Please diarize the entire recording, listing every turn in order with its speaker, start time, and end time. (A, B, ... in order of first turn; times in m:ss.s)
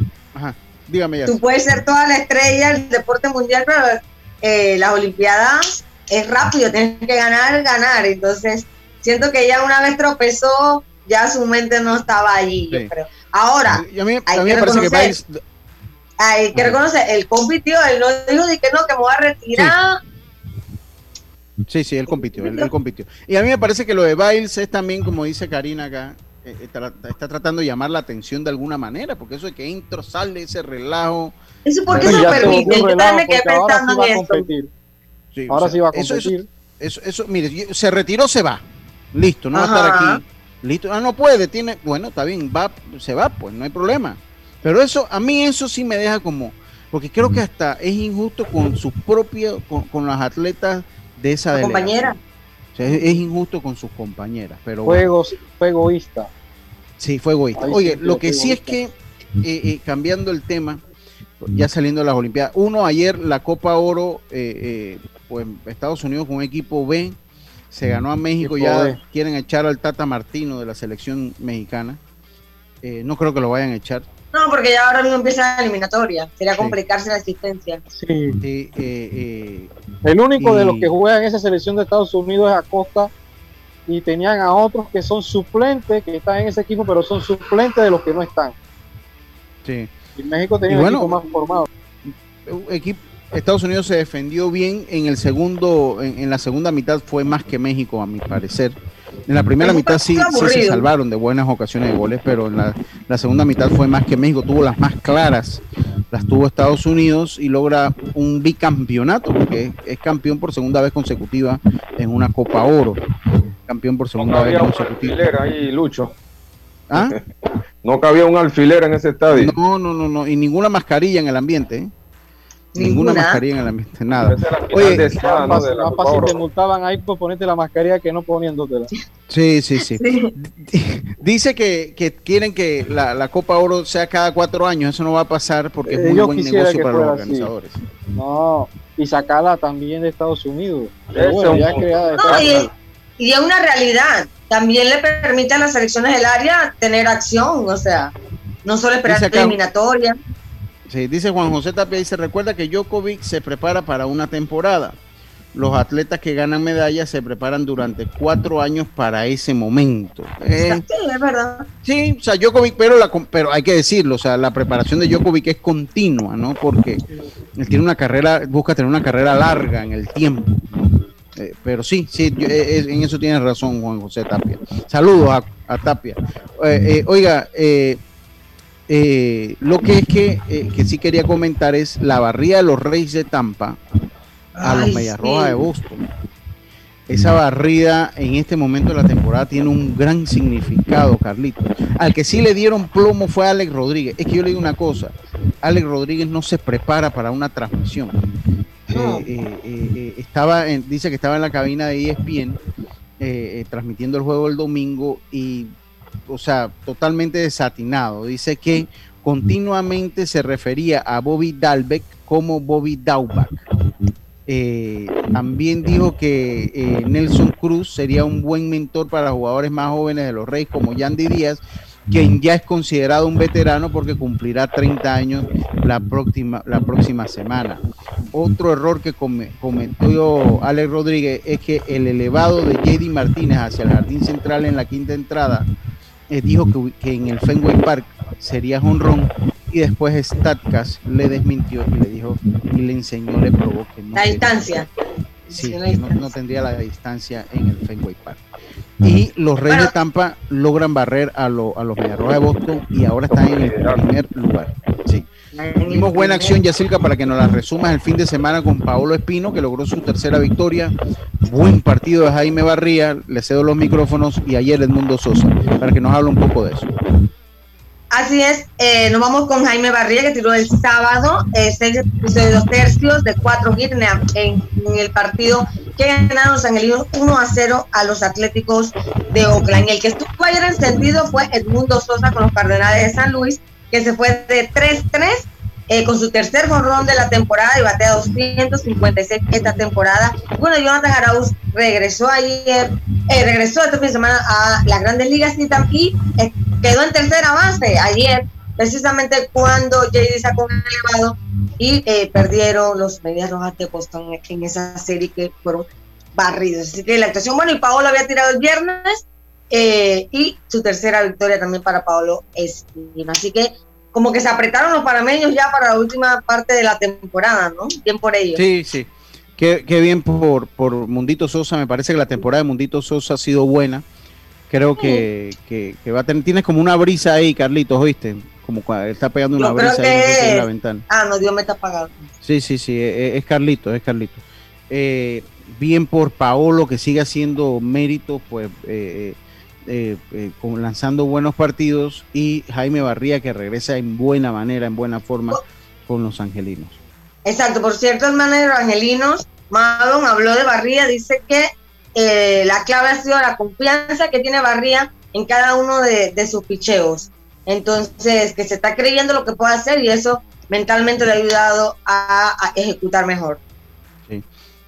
0:00.3-0:01.4 A
0:01.2-0:15.1 B
0:13.7-0:15.4 A
0:16.2-0:20.0 B
0:21.7-0:31.3 A
0:22.1-0:22.7 B
0:31.6-0:34.5 B
0:31.9-0:32.8 A
0:32.0-0:34.7 C
0:35.3-0:52.1 A
0:35.5-0:36.5 C
0:39.5-0:40.2 B
0:51.5-0:52.2 B
0:52.7-0:55.0 A
0:54.8-0:56.3 C
0:57.0-1:00.8 A
0:57.6-0:58.7 C
1:01.4-1:07.2 A
1:07.7-1:12.0 A
1:08.4-1:09.0 C
1:12.8-1:14.0 A
1:14.3-1:17.8 B
1:18.0-1:18.4 C
1:18.4-1:19.7 A
1:20.0-1:23.1 C
1:20.4-1:20.9 A
1:23.9-1:28.5 C
1:29.6-1:29.9 A
1:30.2-1:31.7 C
1:30.7-1:31.2 A
1:32.1-1:38.8 A
1:39.3-1:53.0 A
1:39.6-1:40.8 B
1:53.7-1:55.2 A
1:54.2-1:56.1 D
1:56.9-1:57.2 A
1:56.9-1:57.2 D
1:57.8-1:59.5 D
1:59.3-2:01.9 A
2:02.7-2:05.2 A
2:02.8-2:03.4 B
2:04.2-2:06.4 D
2:04.8-2:08.9 C
2:09.3-2:17.8 A
2:09.8-2:10.3 B
2:15.9-2:17.5 C
2:18.2-2:22.7 C
2:21.1-2:22.6 D
2:22.2-2:22.7 B
2:23.2-2:28.1 B
2:28.6-2:30.2 B
2:29.0-2:29.6 A
2:30.9-2:35.0 A
2:35.5-2:40.8 A
2:40.6-2:41.7 B
2:41.8-2:47.0 A
2:47.6-2:58.0 A
2:58.9-3:03.8 A
3:04.6-3:05.5 B
3:04.6-3:06.0 A
3:07.1-3:18.1 A
3:18.9-3:22.6 A
3:18.9-3:19.2 B
3:23.2-3:25.7 A
3:26.2-3:33.6 A
3:34.5-3:55.7 A
3:56.3-4:04.9 A
4:04.1-4:04.9 B
4:05.5-4:08.4 A
4:05.5-4:06.3 B
4:09.0-4:15.3 A
4:13.3-4:14.0 D
4:15.5-4:16.6 B
4:15.8-4:26.9 A
4:28.1-5:18.6 B
5:18.5-5:24.0 A
5:24.7-5:31.0 A
5:25.0-5:25.2 B
5:29.6-5:32.1 B
5:32.4-5:47.0 A
5:47.4-6:03.6 B